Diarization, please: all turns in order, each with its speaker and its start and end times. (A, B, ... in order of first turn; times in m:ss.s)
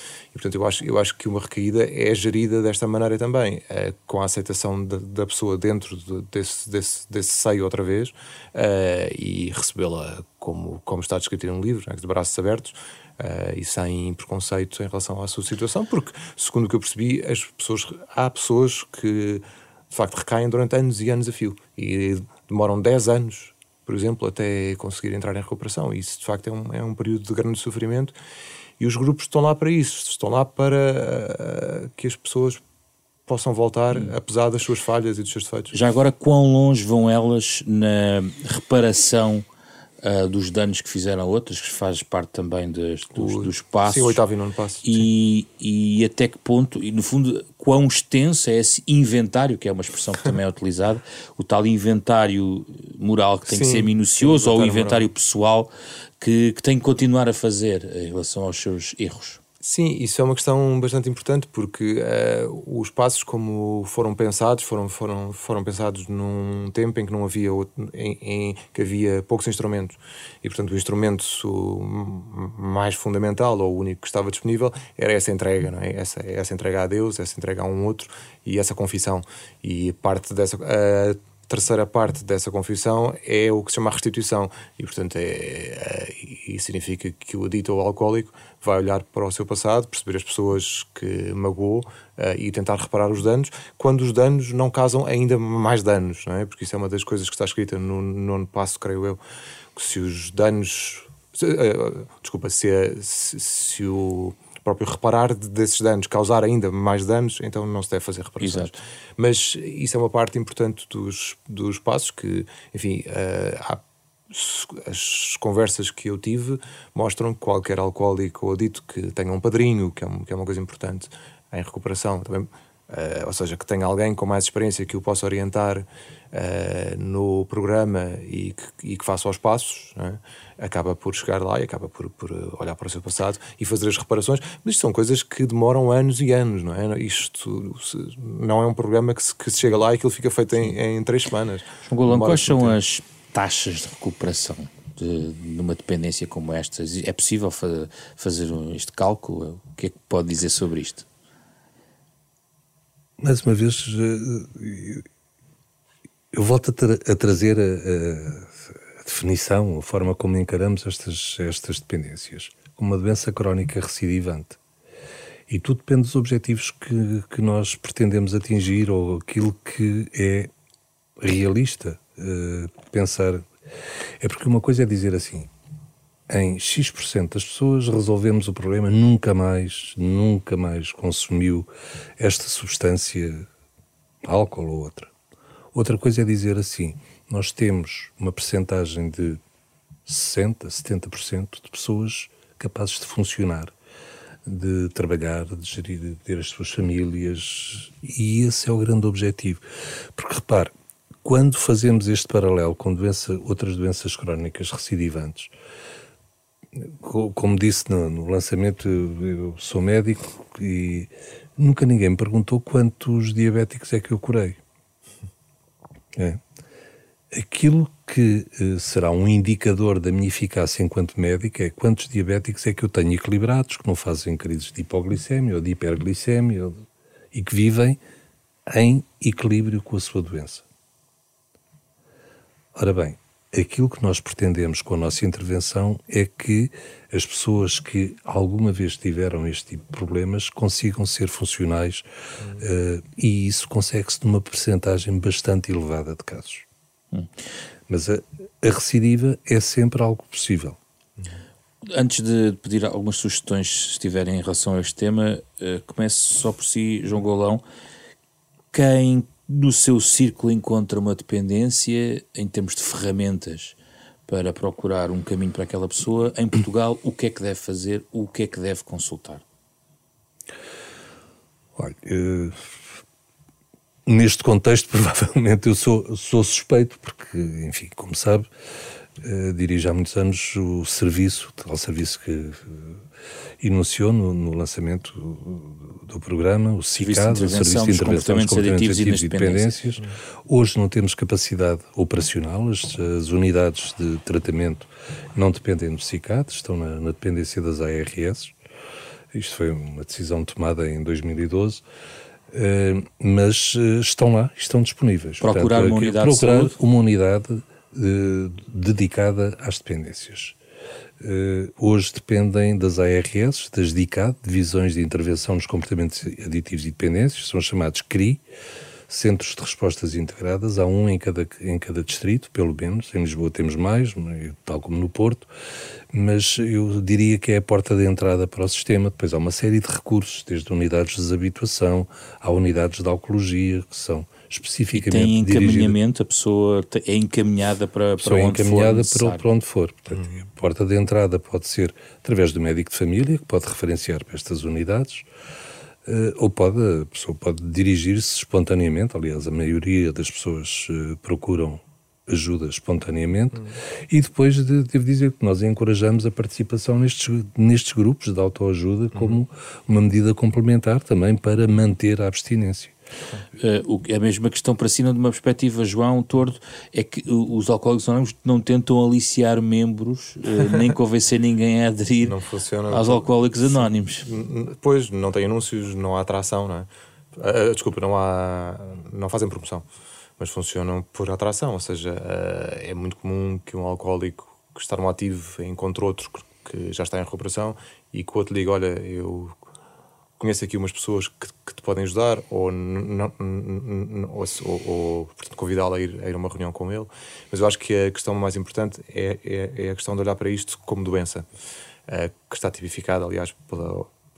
0:00.3-0:28.1 A
0:28.8-0:32.6 A
0:33.3-0:35.7 A
0:35.7-0:39.4 B
0:40.0-0:44.2 B
0:43.2-0:45.1 A
0:44.8-0:59.4 B
0:53.4-0:55.0 A
0:59.6-1:39.2 A
1:39.8-2:22.8 A
1:48.4-1:48.7 B
2:21.8-2:31.0 B
2:33.2-2:35.0 C
2:36.3-2:44.6 C
2:45.5-2:50.5 C
2:51.2-2:53.5 C
2:54.2-2:55.5 C
2:56.3-3:03.5 C
3:04.2-3:05.1 C
3:05.7-3:09.4 C
3:10.0-3:13.7 C
3:14.4-3:25.5 C
3:26.7-3:34.6 C
3:36.1-3:36.4 C
3:37.3-3:48.0 C
3:48.7-3:50.6 C
3:52.7-4:02.0 C
4:02.6-4:06.6 C
4:07.9-4:10.8 C
4:11.8-4:17.6 B
4:18.7-4:23.8 B
4:24.3-4:29.4 B
4:31.8-4:32.8 C
4:34.0-4:38.5 C
4:39.2-4:43.0 C
4:43.6-4:58.5 C
4:47.0-4:49.7 B
4:59.3-5:01.8 C
5:02.5-5:10.6 C
5:05.4-5:06.8 B
5:11.2-5:18.4 C
5:19.1-5:25.5 C
5:26.1-5:36.0 C
5:34.9-5:39.5 B
5:38.2-5:45.3 C
5:46.0-6:02.9 C
6:03.6-6:12.4 B
6:12.2-6:19.8 A
6:12.9-6:14.2 B
6:20.4-6:29.6 A
6:30.4-6:41.4 A
6:42.1-6:44.1 A